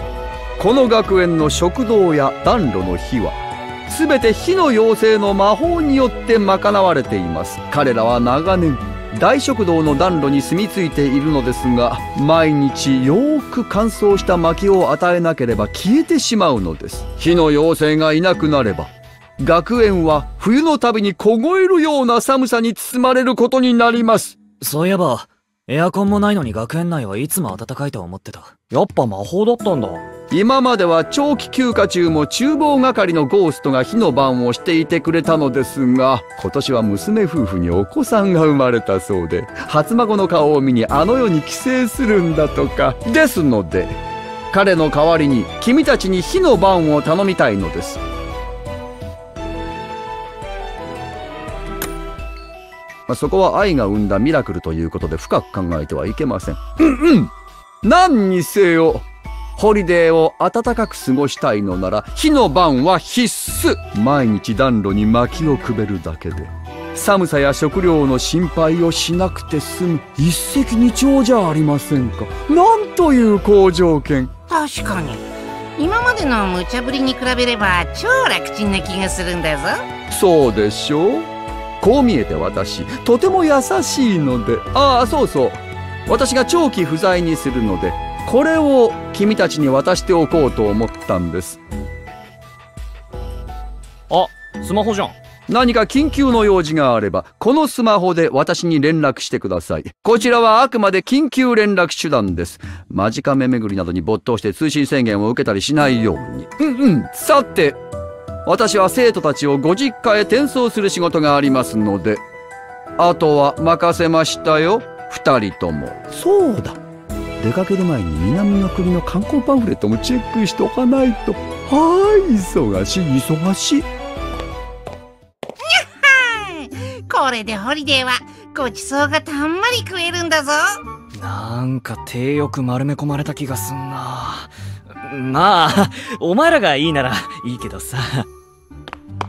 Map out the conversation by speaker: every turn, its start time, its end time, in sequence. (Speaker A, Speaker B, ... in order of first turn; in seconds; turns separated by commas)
Speaker A: 0.6-24.4, Speaker B: 24.6-28.5, Speaker C: 28.7-30.0, Speaker A: 30.3-44.0, Speaker A: 44.5-48.0, Speaker A: 53.1-57.3, Speaker A: 57.8-74.3, Speaker D: 74.5-79.8, Speaker A: 80.1-81.3, Speaker A: 81.8-91.6, Speaker C: 94.1-95.1, Speaker A: 95.5-107.8, Speaker A: 108.4-112.2, Speaker A: 113.0-116.8, Speaker A: 117.4-123.9, Speaker D: 125.7-130.8, Speaker C: 131.1-138.3